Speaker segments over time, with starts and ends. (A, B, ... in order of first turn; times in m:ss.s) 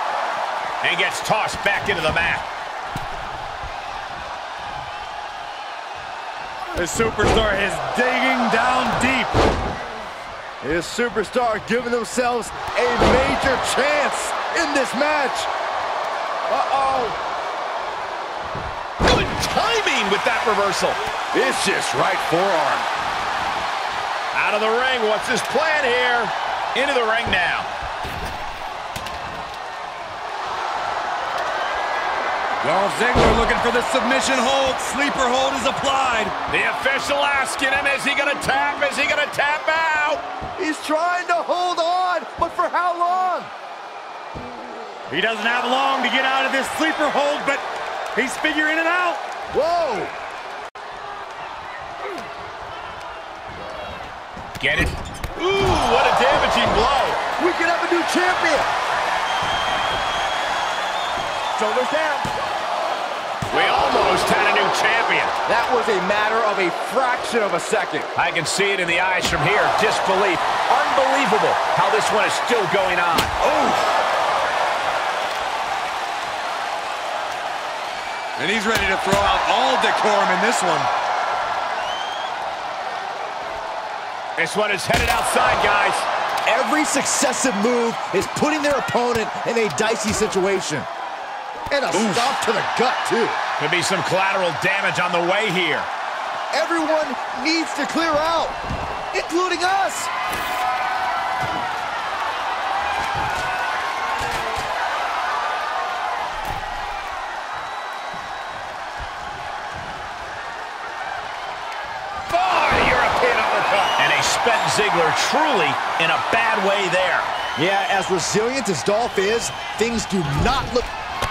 0:00.8-0:02.5 A
0:06.7-0:09.4 B
0:10.6-0:15.5 C
0:16.5-0:17.2 A
0:19.0-0:21.0 A
0:21.3-0:22.9 C
0:24.3-0:27.7 A
0:32.6-0:36.4 B
0:36.5-0:40.2 A
0:40.6-0:43.5 C
0:45.1-0:47.6 B
0:48.1-0:49.2 B
0:49.5-0:50.2 C
0:54.6-0:57.2 A
0:57.4-0:58.7 C
1:01.6-1:02.3 C
1:03.5-1:05.4 A
1:05.5-1:08.1 C
1:08.2-1:13.3 A
1:13.4-1:13.9 B
1:18.4-1:20.9 B
1:24.4-1:26.1 A
1:26.4-1:30.9 C
1:31.7-1:33.4 C
1:31.9-1:32.4 A
1:33.6-1:35.9 A
1:36.5-1:38.6 C
1:39.1-1:40.1 C
1:52.3-1:57.3 A
1:57.6-2:00.9 C